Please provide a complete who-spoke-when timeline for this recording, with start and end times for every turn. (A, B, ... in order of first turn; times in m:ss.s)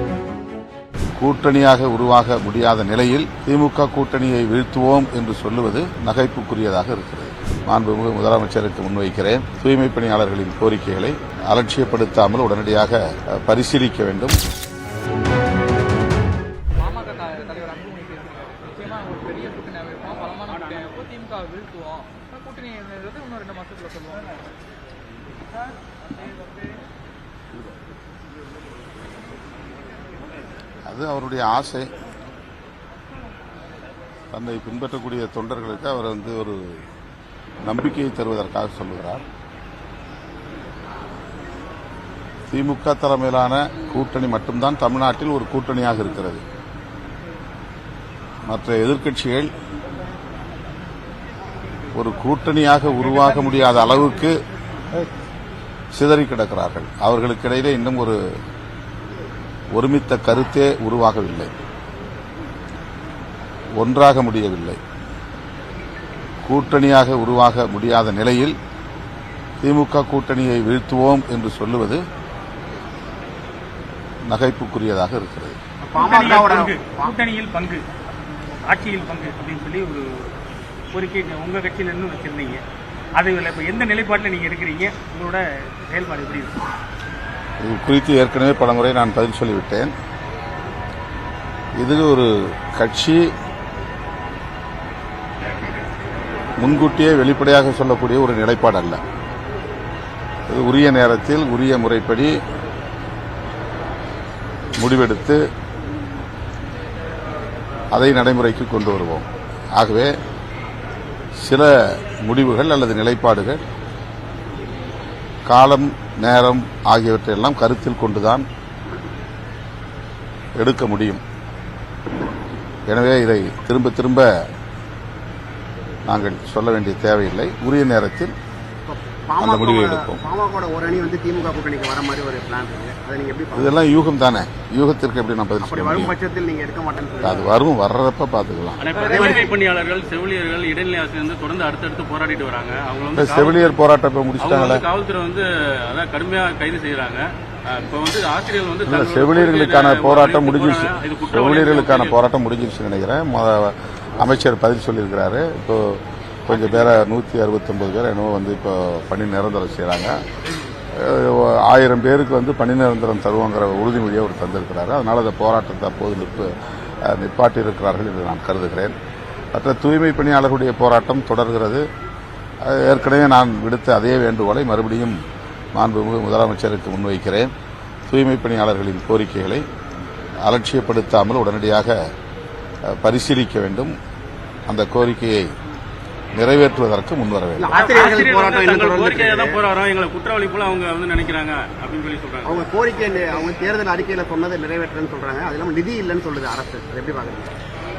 0:01.2-0:14.4 A
0:16.8-0:24.3 B
0:30.9-0:31.9 A
0:34.3-0:36.8 A
0:37.6-0:39.2 A
0:42.5-0:46.4 A
0:48.5-0:49.5 A
0:52.0-0:54.4 A
0:56.0-0:58.2 A
0:59.7-1:01.5 A
1:03.8-1:04.8 A
1:06.4-1:08.6 A
1:09.6-1:12.0 A
1:14.3-1:15.6 A
1:15.8-1:17.2 C
1:16.0-1:17.9 D
1:18.7-1:20.3 D
1:20.9-1:22.6 D
1:23.2-1:26.6 D
1:27.6-1:29.9 A
1:31.8-1:33.3 A
1:36.6-1:39.0 A
1:40.5-1:42.4 A
1:44.8-1:45.4 A
1:47.9-1:50.1 A
1:51.4-1:53.6 A
1:55.5-1:58.5 A
2:00.6-2:01.2 A
2:02.9-2:04.3 A
2:06.1-2:08.4 A
2:08.9-2:13.9 C
2:09.4-2:10.2 A
2:13.6-2:16.2 A
2:15.6-2:17.5 C
2:17.2-2:18.8 A
2:18.8-2:23.8 E
2:18.9-2:19.5 C
2:23.1-2:24.8 A
2:24.4-2:32.2 E
2:28.9-2:40.2 A
2:36.5-2:37.0 E
2:40.9-2:46.5 A
2:47.0-2:49.0 A
2:49.5-2:51.8 A
2:52.6-2:55.2 A
2:55.8-2:57.5 A
2:58.1-2:59.6 A
3:00.4-3:02.0 A
3:02.9-3:04.0 A
3:04.7-3:05.5 A
3:06.4-3:07.8 A
3:07.6-3:09.6 C
3:07.7-3:12.7 E
3:12.4-3:17.5 C